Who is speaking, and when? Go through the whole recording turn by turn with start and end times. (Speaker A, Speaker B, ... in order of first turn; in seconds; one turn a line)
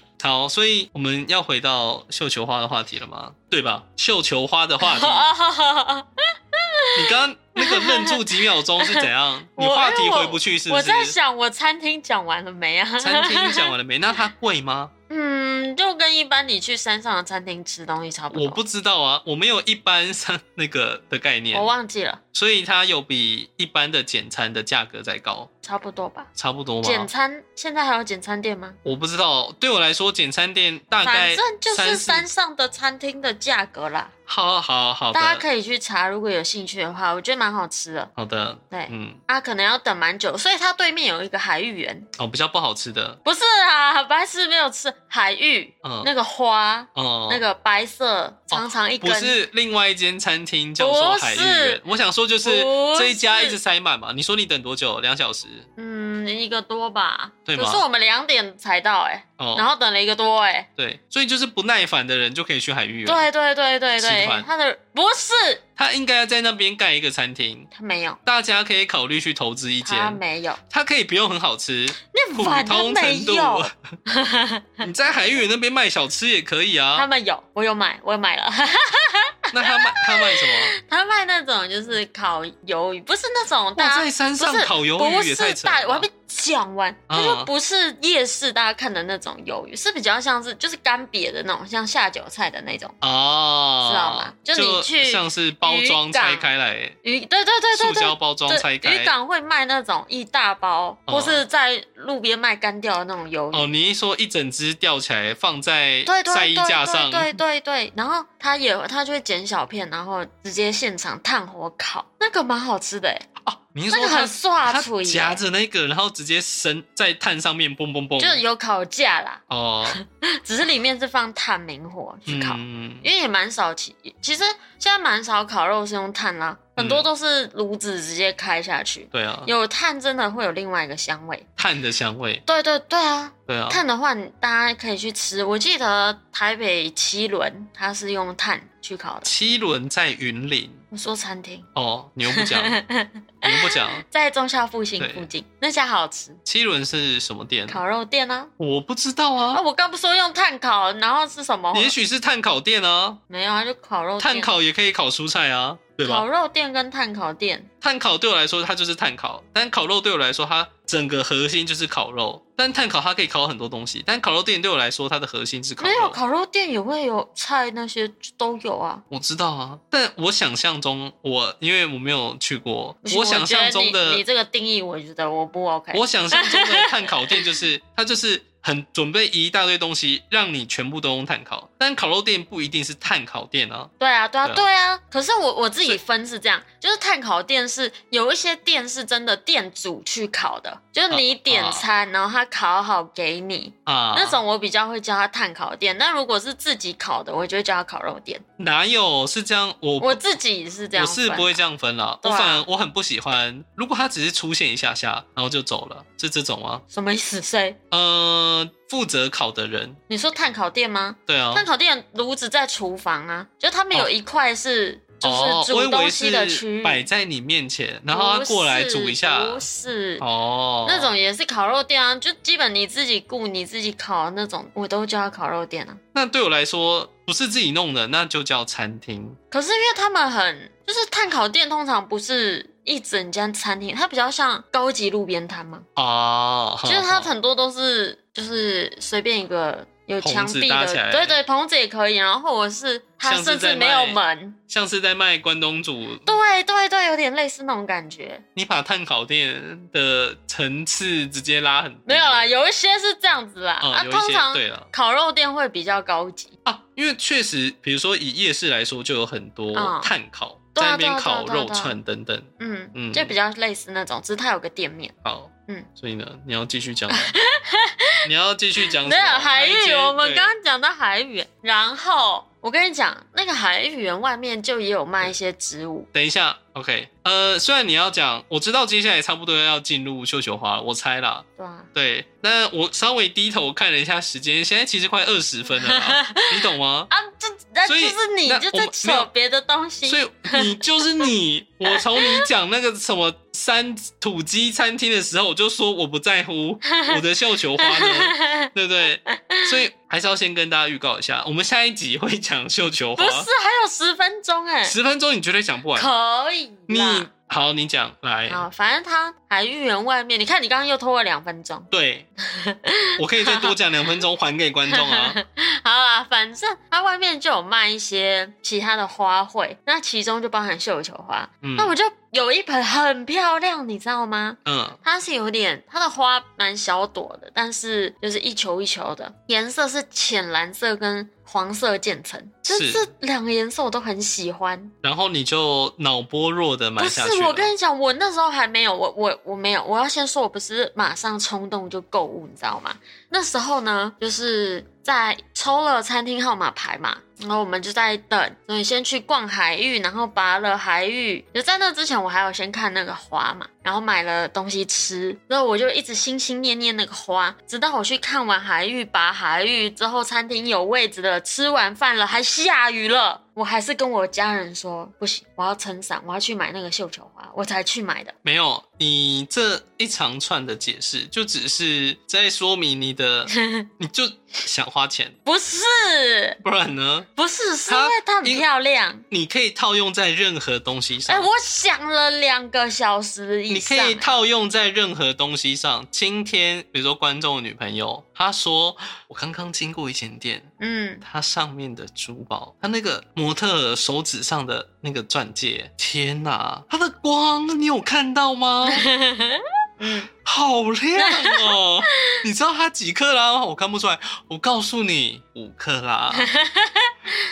Speaker A: 0.2-5.3
Speaker B: 4.8-13.7
Speaker A: 7.0-11.2
Speaker A: 13.0-14.9
Speaker B: 15.1-18.6
Speaker A: 18.3-21.7
Speaker B: 21.5-22.2
Speaker A: 22.3-25.5
Speaker B: 25.6-26.3
Speaker A: 26.4-27.1
Speaker B: 26.8-28.8
Speaker A: 28.8-32.3
Speaker B: 31.0-34.1
Speaker A: 34.3-35.4
Speaker B: 35.1-38.1
Speaker A: 38.2-39.2
Speaker B: 38.7-42.1
Speaker A: 42.2-43.2
Speaker B: 43.2-49.4
Speaker A: 45.8-46.1
Speaker A: 47.0-47.4
Speaker A: 48.5-55.7
Speaker B: 50.8-51.8
Speaker B: 52.4-53.6
Speaker B: 55.8-60.7
Speaker A: 57.5-57.8
Speaker A: 59.4-59.7
Speaker A: 60.8-63.3
Speaker B: 63.1-65.6
Speaker A: 64.0-64.5
Speaker A: 65.8-67.7
Speaker B: 67.7-68.2
Speaker A: 68.2-73.8
Speaker B: 69.8-70.6
Speaker B: 72.0-74.9
Speaker A: 74.8-77.1
Speaker B: 77.0-93.0
Speaker A: 79.5-80.7
Speaker A: 83.8-86.1
Speaker A: 87.1-87.5
Speaker A: 93.0-97.0
Speaker B: 93.8-96.5
Speaker B: 97.0-103.7
Speaker A: 97.7-99.1
Speaker A: 101.1-101.4
Speaker A: 103.5-107.4
Speaker B: 106.1-113.3
Speaker A: 113.4-118.4
Speaker B: 113.9-115.4
Speaker B: 118.2-131.5
Speaker A: 119.5-120.0
Speaker A: 122.3-123.1
Speaker A: 126.8-127.1
Speaker A: 129.1-129.5
Speaker A: 131.6-132.4
Speaker B: 132.5-139.3
Speaker A: 133.5-133.8
Speaker A: 139.2-140.8
Speaker B: 140.9-141.7
Speaker A: 141.8-142.8
Speaker B: 142.3-146.4
Speaker A: 143.4-144.0
Speaker A: 145.0-145.3
Speaker A: 146.5-147.8
Speaker B: 147.7-148.5
Speaker A: 148.6-149.6
Speaker B: 149.5-152.0
Speaker A: 151.7-153.2
Speaker B: 153.3-154.6
Speaker A: 154.2-156.3
Speaker B: 156.0-157.7
Speaker A: 157.8-166.2
Speaker B: 165.8-169.0
Speaker A: 169.1-174.2
Speaker B: 173.0-177.4
Speaker A: 175.9-183.9
Speaker B: 184.0-198.4
Speaker A: 191.1-191.8
Speaker A: 193.9-194.4
Speaker A: 198.6-200.2
Speaker B: 200.0-201.6
Speaker A: 200.9-206.8
Speaker B: 202.2-202.7
Speaker B: 206.9-207.8
Speaker A: 207.9-210.0
Speaker B: 210.1-217.1
Speaker A: 211.3-211.7
Speaker A: 215.2-219.7
Speaker B: 218.1-220.2
Speaker A: 220.2-221.1
Speaker B: 220.8-226.0
Speaker A: 226.1-229.4
Speaker B: 229.5-235.9
Speaker A: 236.0-237.3
Speaker B: 236.8-244.6
Speaker A: 240.2-241.4
Speaker A: 243.2-246.3
Speaker B: 246.2-248.4
Speaker A: 248.6-252.5
Speaker B: 252.1-256.5
Speaker A: 253.8-254.9
Speaker A: 256.6-263.4
Speaker B: 259.7-260.1
Speaker B: 260.8-262.0
Speaker B: 262.6-265.1
Speaker A: 265.2-267.4
Speaker B: 267.1-268.2
Speaker A: 268.2-270.5
Speaker B: 268.8-276.1
Speaker A: 276.1-287.1
Speaker B: 281.6-281.9
Speaker B: 285.7-291.0
Speaker A: 287.9-289.3
Speaker A: 290.1-303.5
Speaker B: 291.9-292.5
Speaker B: 296.9-297.2
Speaker B: 297.8-298.7
Speaker B: 299.3-299.8
Speaker B: 303.2-305.0
Speaker A: 304.9-306.1
Speaker B: 305.9-307.3
Speaker A: 306.9-308.6
Speaker B: 308.5-311.9
Speaker A: 311.9-312.3
Speaker B: 312.5-313.8
Speaker A: 313.2-315.4
Speaker B: 314.9-334.9
Speaker A: 321.6-321.9
Speaker A: 324.7-325.0
Speaker A: 332.7-333.1
Speaker A: 335.0-337.7
Speaker B: 337.0-368.4
Speaker A: 368.4-375.4
Speaker B: 373.5-373.9
Speaker B: 375.4-376.6
Speaker A: 376.6-377.3
Speaker B: 377.4-379.2
Speaker A: 377.9-378.6
Speaker A: 379.3-381.5
Speaker B: 381.3-384.3
Speaker A: 383.7-390.7
Speaker B: 390.8-391.2
Speaker A: 391.2-399.1
Speaker B: 398.9-400.3
Speaker A: 400.4-406.5
Speaker B: 401.2-401.8
Speaker B: 406.3-407.1